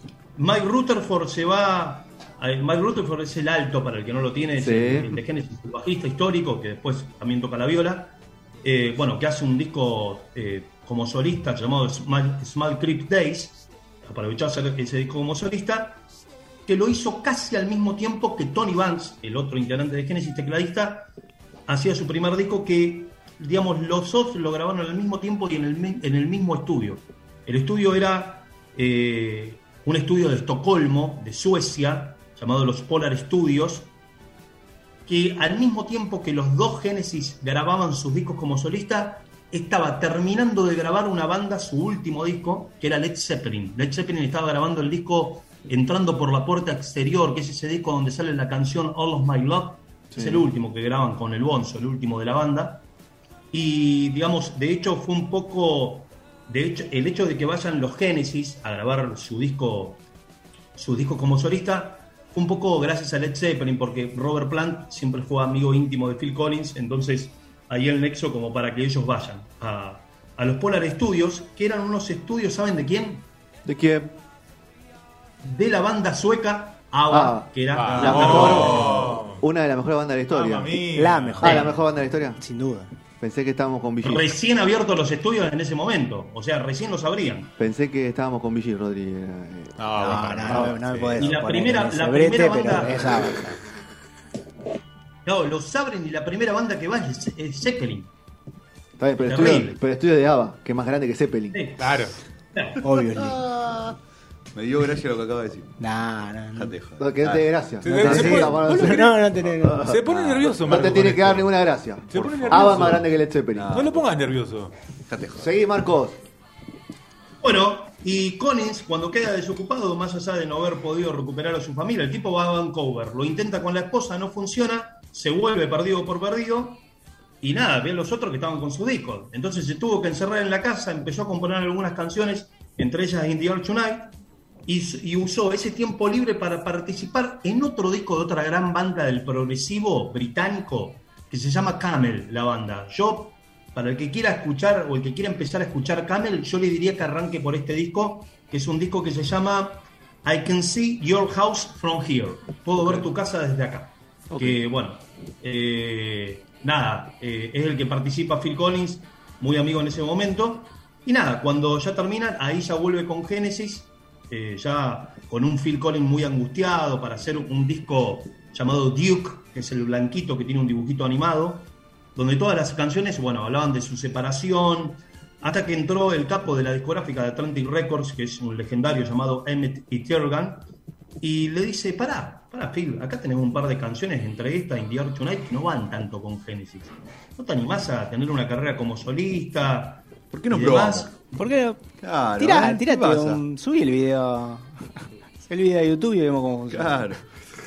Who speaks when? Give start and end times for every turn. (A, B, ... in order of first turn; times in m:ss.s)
0:00.4-0:16.0 A
0:04.6-0:05.2 B
0:16.6-0:21.1 A
0:21.7-0:33.9 A
0:35.0-0:52.8 A
0:50.1-0:50.5 B
0:53.5-1:00.0 A
1:00.8-1:13.2 A
1:13.6-1:14.2 B
1:15.4-1:18.9 A
1:17.1-1:20.8 B
1:17.7-1:19.4 C
1:17.9-1:18.4 D
1:20.3-1:21.7 C
1:20.9-1:21.7 E
1:21.4-1:22.4 B
1:22.4-1:22.9 E
1:23.2-1:24.3 B
1:24.0-1:27.5 A
1:27.6-1:29.8 B
1:29.8-1:31.3 C
1:30.0-1:33.6 E
1:30.4-1:30.7 B
1:31.2-1:33.2 A
1:35.2-1:38.1 A
1:39.0-1:41.6 B
1:39.2-1:39.8 A
1:41.5-1:42.8 A
1:41.8-1:42.2 C
1:42.8-1:43.4 E
1:43.1-1:44.0 D
1:44.5-1:45.7 D
1:45.8-1:46.7 E
1:46.5-1:48.2 D
1:47.0-1:53.8 B
1:47.8-1:49.2 C
1:48.0-1:49.9 E
1:49.8-1:51.5 C
1:52.1-1:53.1 C
1:52.1-1:54.1 D
1:53.7-1:54.7 C
1:55.1-1:55.5 D
1:55.4-1:56.2 B
1:57.4-2:06.8 A
2:07.4-2:14.2 A
2:14.7-3:00.7 A
2:34.3-2:34.6 B
3:01.2-3:11.2 A
3:10.3-3:11.1 D
3:11.4-3:11.8 E
3:12.0-3:13.4 D
3:12.4-3:14.8 E
3:15.4-3:17.0 E
3:16.7-3:17.2 D